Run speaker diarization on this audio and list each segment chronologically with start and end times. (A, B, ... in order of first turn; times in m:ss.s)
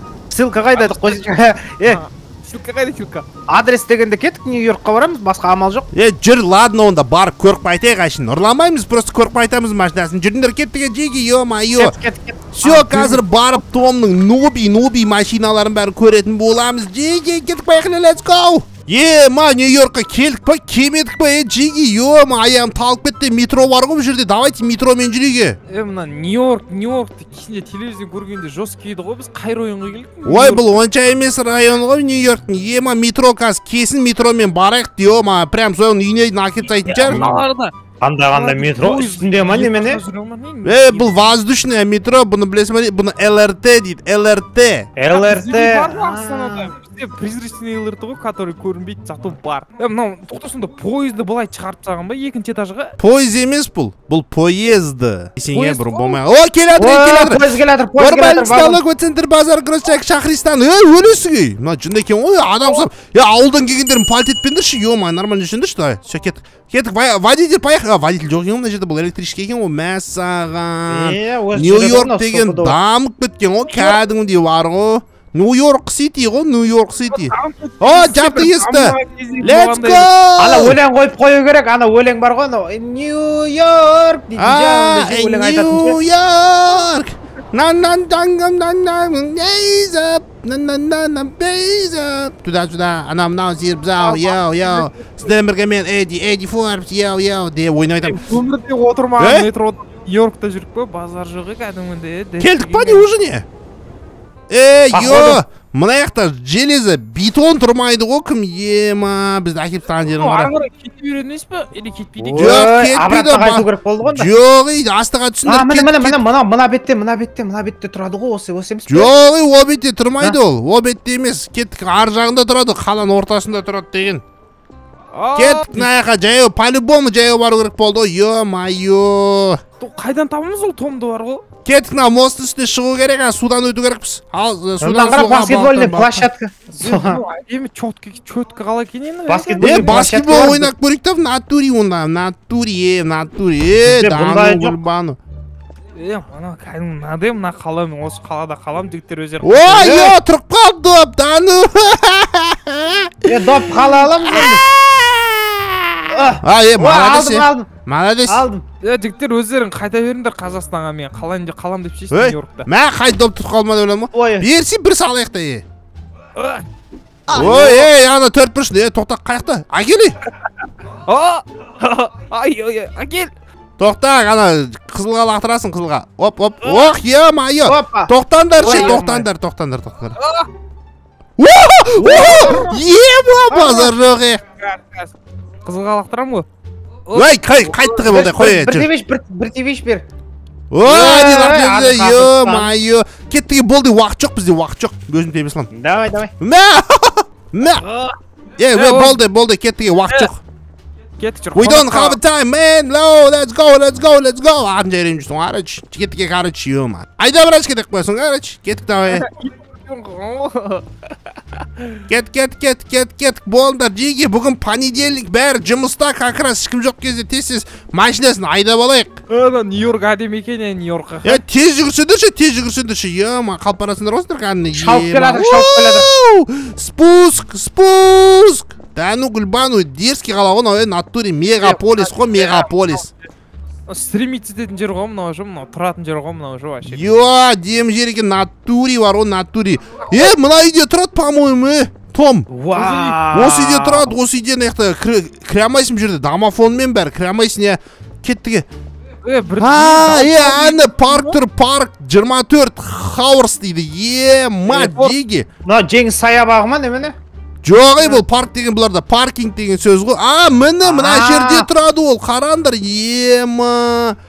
0:00.3-0:02.0 A
0:00.7-0:01.3 B
0:01.8-0:03.2 B
0:03.5-0:05.9 A
0:05.9-0:11.9 C
0:11.8-0:13.2 A
0:12.5-0:25.6 C
0:25.7-0:30.6 B
0:30.2-0:37.4 C
0:36.9-0:37.7 B
0:38.0-0:40.0 A
0:38.3-0:41.2 B
0:40.6-0:44.9 C
0:45.0-0:46.7 A
0:45.1-0:52.9 B
0:53.0-0:57.4 C
0:55.5-0:56.2 B
0:56.7-0:58.8 A
0:58.0-1:20.8 C
1:10.9-1:12.8 A
1:13.7-1:14.0 B
1:17.1-1:20.1 B
1:20.4-1:26.0 A
1:24.4-1:38.2 C
1:34.0-1:35.0 B
1:38.0-1:43.1 B
1:39.2-1:39.5 C
1:42.4-1:43.4 C
1:44.5-1:50.5 C
1:44.9-1:45.4 A
1:50.2-1:52.7 B
1:52.2-1:54.3 A
1:52.3-1:56.2 C
1:55.4-1:59.1 A
1:58.9-2:04.2 C
2:05.1-2:05.9 B
2:05.4-2:09.6 C
2:09.8-2:11.4 B
2:11.6-2:16.3 C
2:14.8-2:17.2 A
2:16.8-2:20.1 B
2:19.3-2:20.7 A
2:19.6-2:25.2 C
2:23.8-2:24.8 A
2:26.0-2:30.0 B
2:29.4-2:38.4 C
2:29.8-2:30.2 A
2:33.2-2:34.6 A
2:36.1-2:37.7 A
2:38.3-2:38.6 A
2:38.8-2:42.7 B
2:42.1-2:45.6 C
2:44.1-2:44.4 A
2:46.4-2:46.6 B
2:47.3-2:47.9 B
2:47.3-2:50.2 C
2:47.3-2:47.8 A
2:51.0-2:53.3 B
2:53.8-3:00.2 C
2:56.6-2:56.9 B
2:57.6-2:59.3 A
2:58.6-2:59.0 B
3:00.2-3:00.5 B
3:01.4-3:04.4 C
3:02.0-3:02.8 A
3:02.2-3:02.8 B
3:03.5-3:03.9 A
3:04.6-3:05.1 B
3:05.6-3:06.5 B
3:07.1-3:08.1 B
3:07.1-3:08.9 C
3:08.0-3:10.0 A
3:10.7-3:15.7 C
3:10.8-3:12.7 A
3:15.7-3:16.3 A
3:16.4-3:17.8 C
3:17.8-3:18.2 B
3:18.6-3:20.4 C
3:18.7-3:19.2 B
3:21.2-3:22.2 B
3:21.5-3:29.2 C
3:29.1-3:32.0 B
3:32.1-3:39.2 C
3:39.3-3:41.4 B
3:41.2-3:53.1 C
3:44.7-3:46.1 A
3:51.6-3:52.9 B
3:53.9-3:57.1 B
3:56.8-4:02.5 C
4:02.5-4:04.1 A
4:02.7-4:03.2 B
4:03.3-4:08.7 C
4:09.2-4:11.4 B
4:09.6-4:15.5 C
4:14.7-4:15.1 B
4:15.6-4:17.1 A
4:17.6-4:24.2 C
4:20.8-4:21.7 A